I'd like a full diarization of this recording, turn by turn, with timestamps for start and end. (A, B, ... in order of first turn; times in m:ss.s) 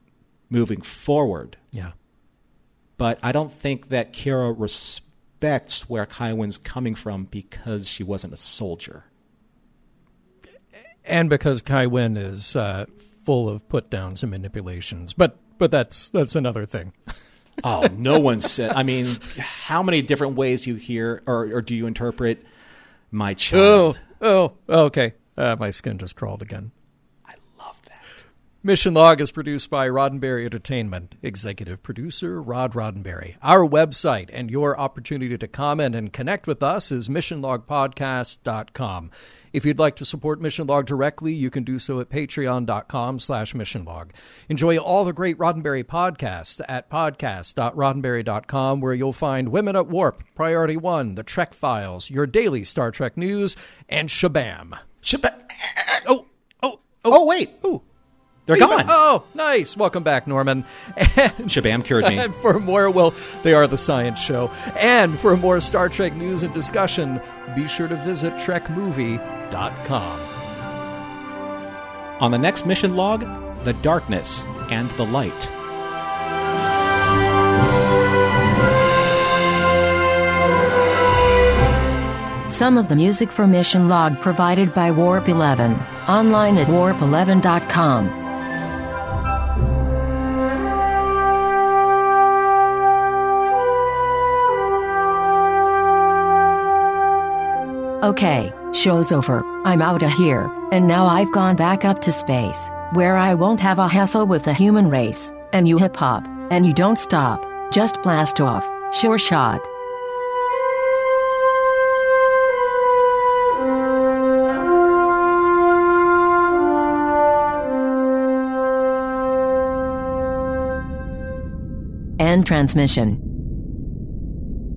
0:00.5-0:01.6 A
0:03.0-0:09.0 A
0:11.0-0:16.9 B
0:17.6-0:22.4 A
0:23.1-0:24.0 A
0:23.5-0:26.7 B
0:27.3-0:28.0 A
0:28.6-0:54.8 B
0:55.0-0:56.0 A
0:56.0-0:57.8 B
0:57.1-0:57.5 A
0:58.5-0:59.0 A
0:58.5-1:10.3 B
1:01.5-1:02.3 A
1:12.2-1:15.5 A
1:22.5-1:28.1 C
1:38.0-1:49.7 C
2:02.2-2:03.2 C